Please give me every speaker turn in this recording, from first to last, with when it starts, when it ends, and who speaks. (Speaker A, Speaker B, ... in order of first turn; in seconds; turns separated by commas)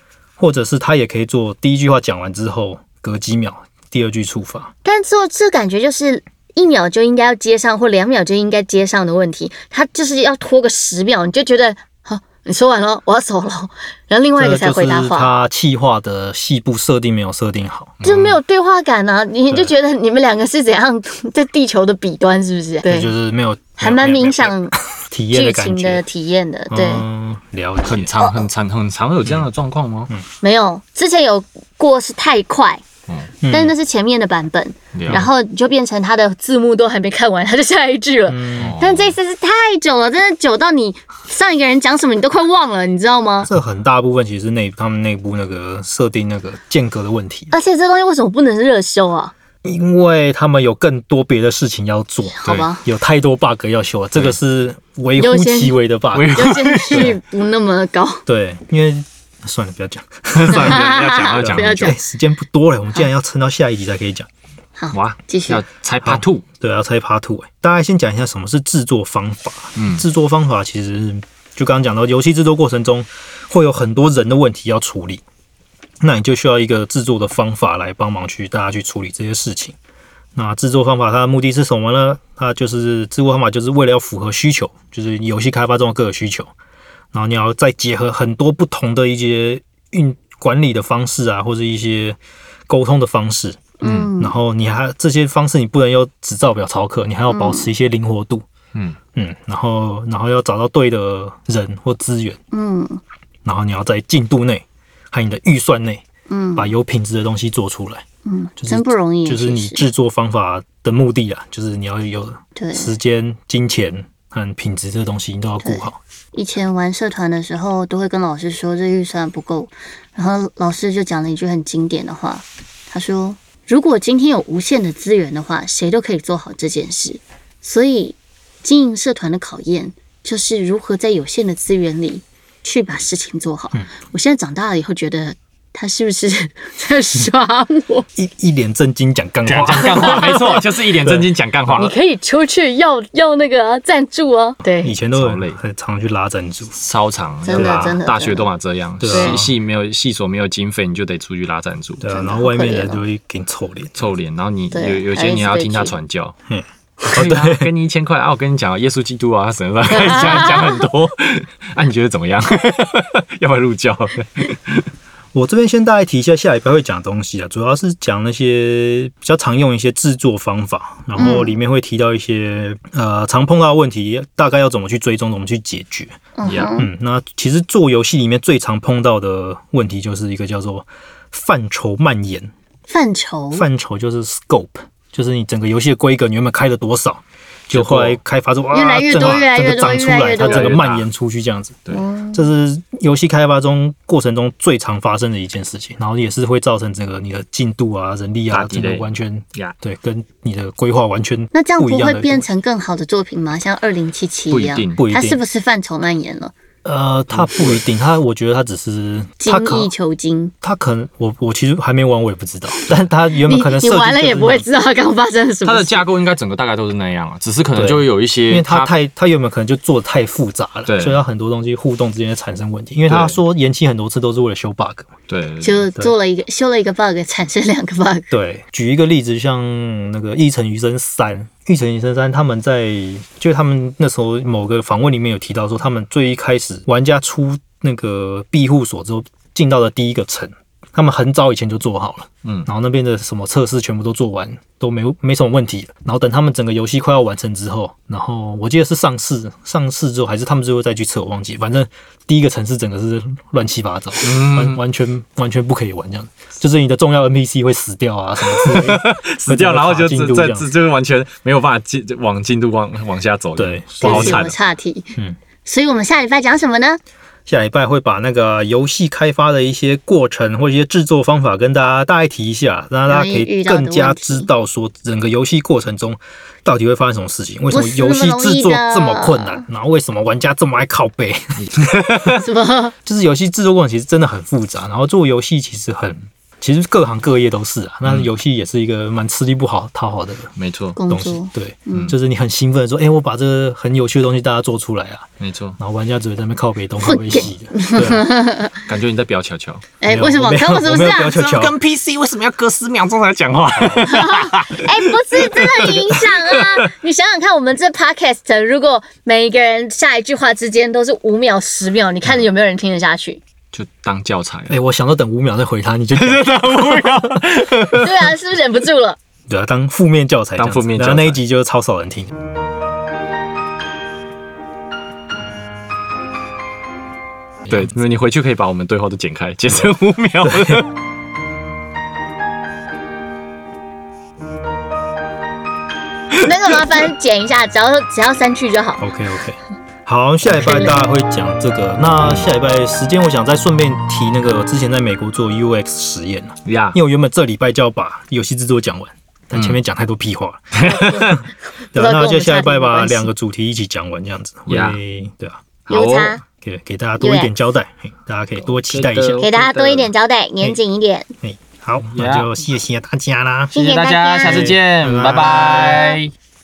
Speaker A: 0.4-4.7, Speaker B: 4.8-15.4, Speaker A: 14.4-17.9, Speaker C: 18.0-18.4, Speaker B: 18.0-23.1, Speaker A: 22.9-26.0, Speaker B: 23.8-24.7, Speaker B: 25.3-27.0, Speaker A: 26.7-28.1, Speaker C: 27.8-30.1, Speaker B: 28.2-28.5, Speaker B: 30.4-32.8, Speaker C: 33.1-33.3, Speaker A: 33.4-33.7, Speaker B: 33.4-43.5, Speaker C: 34.9-35.3, Speaker A: 38.3-38.8, Speaker C: 38.6-39.1, Speaker A: 43.4-47.5, Speaker B: 47.5-49.3, Speaker A: 49.6-57.1, Speaker B: 52.3-52.8, Speaker B: 55.2-55.8, Speaker C: 56.1-57.1, Speaker B: 56.3-58.2, Speaker A: 58.2-64.3, Speaker C: 60.3-62.0, Speaker B: 60.5-62.0, Speaker B: 64.8-65.6, Speaker C: 64.9-66.4, Speaker A: 66.0-75.2, Speaker C: 69.8-70.0, Speaker A: 76.0-79.8, Speaker A: 80.3-86.5, Speaker A: 87.1-93.6, Speaker B: 93.8-94.3, Speaker C: 93.8-94.1, Speaker A: 94.2-98.4, Speaker B: 97.3-97.7, Speaker A: 99.1-102.4, Speaker B: 102.5-103.0, Speaker A: 103.4-106.0, Speaker B: 106.3-106.7, Speaker A: 106.5-108.0, Speaker B: 108.2-109.8, Speaker A: 108.6-116.0, Speaker B: 112.5-113.0, Speaker B: 115.6-138.1, Speaker A: 138.2-141.3, Speaker C: 139.4-141.9, Speaker B: 141.7-144.9, Speaker A: 144.8-146.8, Speaker C: 145.1-145.6, Speaker C: 146.7-152.0, Speaker B: 147.4-148.5, Speaker A: 147.5-147.9, Speaker A: 149.0-149.5, Speaker B: 149.0-149.4, Speaker A: 152.0-153.9, Speaker B: 152.0-153.0, Speaker C: 153.9-156.3, Speaker B: 154.7-155.9, Speaker A: 156.5-157.7, Speaker C: 157.1-164.8, Speaker B: 159.9-160.8, Speaker A: 165.3-176.2, Speaker B: 171.2-171.6, Speaker B: 176.4-176.9, Speaker C: 176.4-176.7, Speaker A: 176.8-182.5, Speaker B: 182.9-183.6, Speaker A: 183.5-191.8, Speaker C: 187.7-188.2, Speaker B: 188.7-190.8, Speaker C: 189.1-189.4, Speaker C: 190.5-191.1, Speaker B: 191.9-192.5, Speaker A: 192.3-202.5, Speaker C: 198.5-199.8, Speaker B: 201.5-206.5, Speaker C: 204.5-205.0, Speaker A: 204.9-205.4, Speaker A: 206.8-209.9, Speaker C: 207.3-207.8, Speaker B: 209.4-210.5, Speaker A: 210.6-214.7, Speaker B: 213.4-216.1, Speaker C: 215.6-218.9, Speaker A: 217.7-225.1, Speaker C: 220.8-221.2, Speaker C: 223.1-223.4, Speaker C: 225.3-225.8, Speaker B: 225.6-228.3, Speaker A: 228.3-260.7, Speaker C: 254.2-254.8, Speaker C: 258.4-264.6, Speaker A: 263.6-264.5, Speaker B: 264.0-267.0, Speaker A: 267.4-281.9, Speaker B: 273.1-274.5, Speaker B: 277.7-279.6, Speaker C: 281.6-282.4, Speaker B: 282.4-282.9, Speaker A: 283.0-290.5, Speaker C: 290.6-291.0, Speaker B: 290.9-292.1, Speaker A: 291.1-295.3, Speaker C: 295.4-295.8, Speaker A: 295.8-298.2, Speaker B: 297.0-298.9, Speaker C: 298.8-299.8, Speaker B: 300.0-301.6, Speaker A: 300.1-301.8, Speaker C: 301.4-306.9, Speaker B: 304.0-313.4, Speaker C: 313.7-314.7, Speaker A: 314.7-317.3, Speaker C: 316.1-318.3, Speaker B: 317.9-319.2, Speaker A: 319.5-322.3, Speaker C: 320.6-321.4, Speaker C: 327.7-330.9, Speaker B: 336.3-339.0, Speaker A: 339.0-351.4, Speaker B: 340.5-340.9, Speaker C: 342.2-342.5, Speaker C: 346.6-347.0, Speaker C: 350.7-351.4, Speaker B: 350.9-351.4, Speaker B: 351.9-353.3, Speaker A: 351.9-355.6, Speaker C: 354.7-355.0, Speaker C: 355.9-356.4, Speaker B: 355.9-356.4, Speaker A: 356.6-359.4, Speaker B: 357.2-357.5, Speaker C: 358.7-360.1, Speaker B: 359.4-361.3, Speaker A: 361.4-363.8, Speaker C: 362.1-362.5, Speaker B: 363.7-366.2, Speaker C: 363.7-366.3, Speaker A: 364.4-365.7